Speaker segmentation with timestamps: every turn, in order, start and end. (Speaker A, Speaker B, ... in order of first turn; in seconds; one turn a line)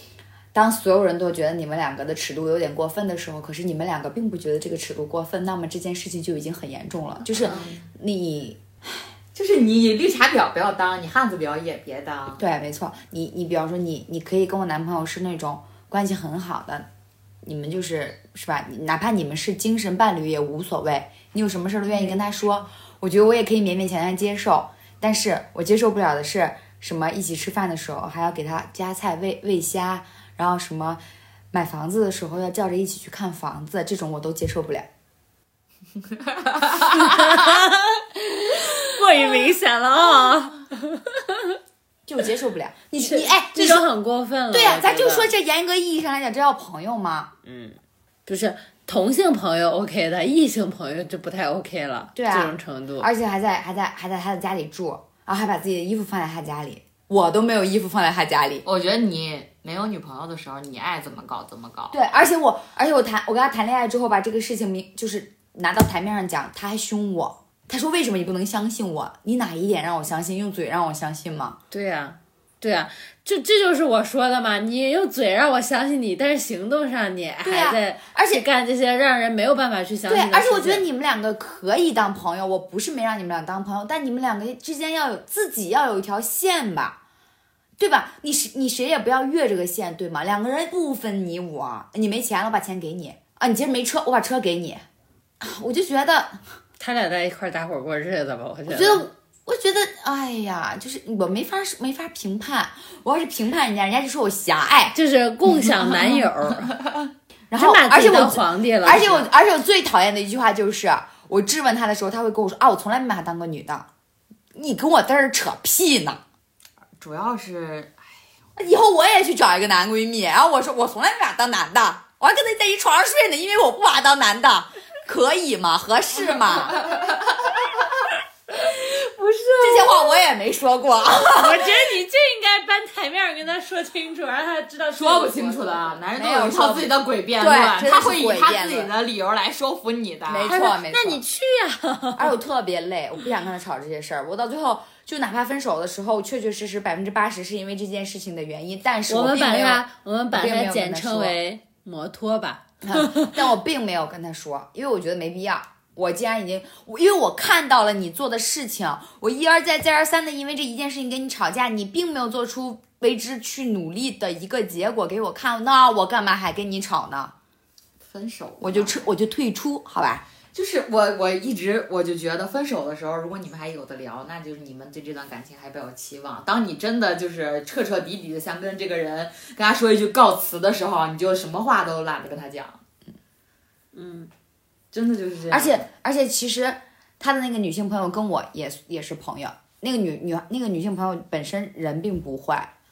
Speaker A: 0.5-8.6
Speaker B: 7.3-7.8
Speaker B: 9.3-12.4
Speaker A: 12.4-16.9
Speaker A: 17.4-31.0
Speaker A: 31.5-34.9
Speaker B: 36.4-36.7
Speaker C: 36.9-41.5
Speaker A: 42.0-43.8
Speaker C: 43.0-45.3
Speaker A: 44.5-47.3
Speaker C: 47.4-53.1
Speaker A: 52.1-58.6
Speaker B: 58.6-62.0
Speaker A: 61.9-71.6
Speaker C: 71.7-80.8
Speaker A: 77.4-78.4
Speaker A: 80.1-87.0
Speaker A: 87.8-94.8
Speaker A: 95.4-96.4
Speaker C: 96.8-99.1
Speaker A: 98.7-104.9
Speaker C: 104.9-106.7
Speaker A: 107.5-113.9
Speaker C: 107.5-109.3
Speaker A: 114.5-116.2
Speaker B: 117.0-118.0
Speaker A: 118.5-126.8
Speaker B: 126.7-127.7
Speaker C: 129.2-129.5
Speaker B: 129.6-129.9
Speaker A: 129.6-131.8
Speaker C: 131.3-136.0
Speaker B: 134.9-140.5
Speaker A: 136.1-138.9
Speaker A: 140.2-141.2
Speaker C: 140.5-142.3
Speaker A: 142.2-151.3
Speaker C: 149.1-153.3
Speaker A: 152.8-167.3
Speaker B: 168.0-169.1
Speaker A: 168.6-170.2
Speaker B: 170.5-182.8
Speaker C: 183.9-184.3
Speaker B: 184.9-185.8
Speaker A: 185.5-192.7